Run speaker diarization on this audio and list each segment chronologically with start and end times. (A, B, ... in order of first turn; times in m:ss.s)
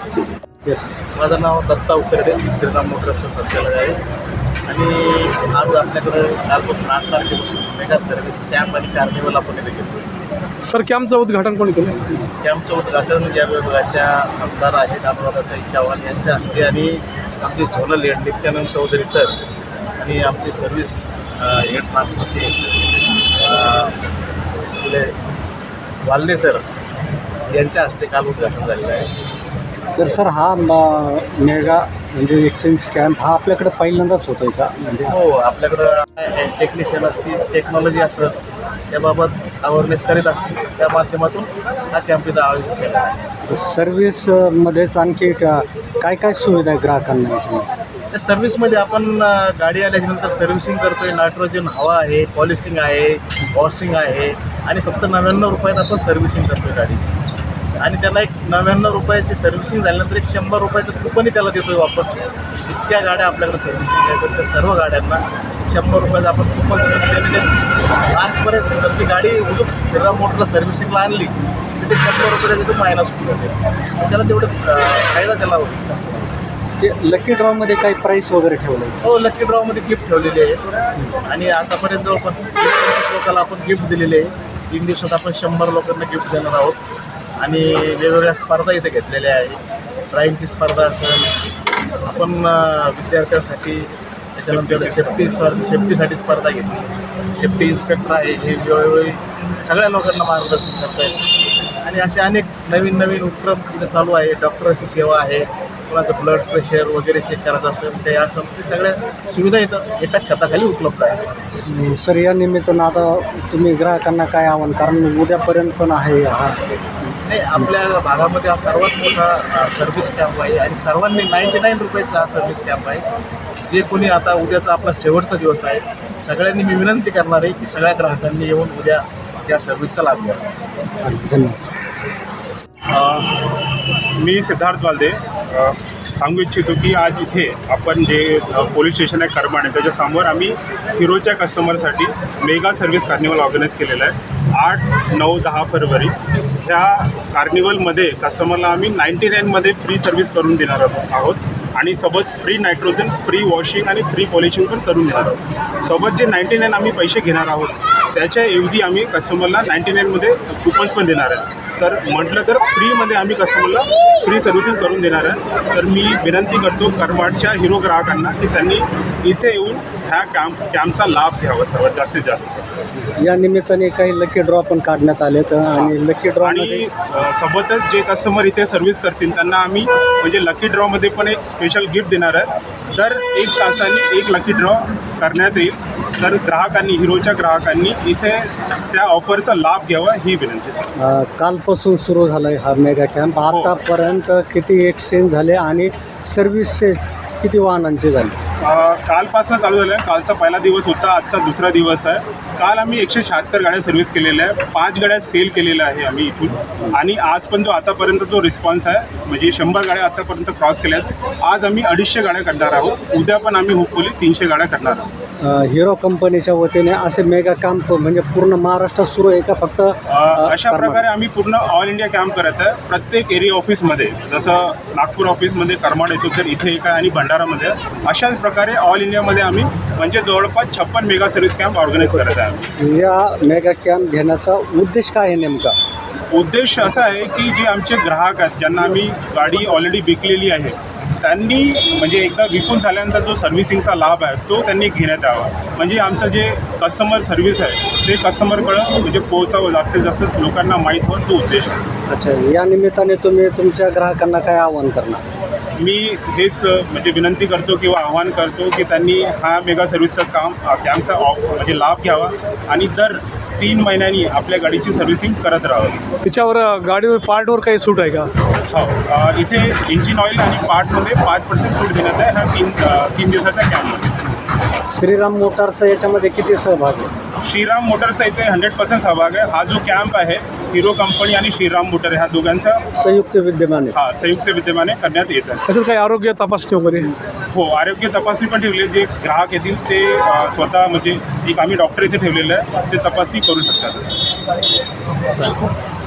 0:01.2-0:04.0 A
0:04.7-0:10.1 A
0:10.7-0:12.2 B
0:12.4-0:19.4 A
0:20.0-0:24.0 A
0:24.8-0:25.3 A
0:26.0-0:26.6 A
0:27.5-0:29.1 A
0:30.0-0:35.2 C
0:35.1-0:38.4 A
0:38.9-0:43.2 A
0:43.5-0:47.7 C
0:48.1-0:57.2 A
0:57.8-1:07.5 A
1:08.1-1:16.4 A
1:16.8-1:19.0 C
1:19.0-1:20.7 A
1:21.3-1:26.8 A
1:27.4-1:29.6 A
1:30.1-1:31.3 A
1:32.0-1:41.2 A
1:34.5-1:35.1 D
1:41.8-1:51.2 A
1:51.7-1:57.7 C
1:57.3-2:03.1 A
2:03.7-2:10.4 A
2:11.0-2:11.7 C
2:12.9-2:13.5 D
2:14.2-2:52.7 D
2:53.2-2:56.9 C
2:56.4-3:10.9 D
3:11.0-3:18.4 C
3:18.6-3:35.1 D
3:35.4-3:41.0 C
3:40.1-3:52.7 D
3:52.1-3:55.8 C
3:56.3-4:11.9 D
4:12.1-4:15.2 C
4:15.8-4:26.0 D
4:26.2-4:28.3 B
4:28.7-4:34.1 D
4:35.0-4:37.1 C
4:37.4-4:42.8 D
4:43.0-4:44.0 C
4:43.9-4:45.6 D
4:45.7-4:47.1 B
4:47.5-4:54.3 D
4:55.3-4:55.7 C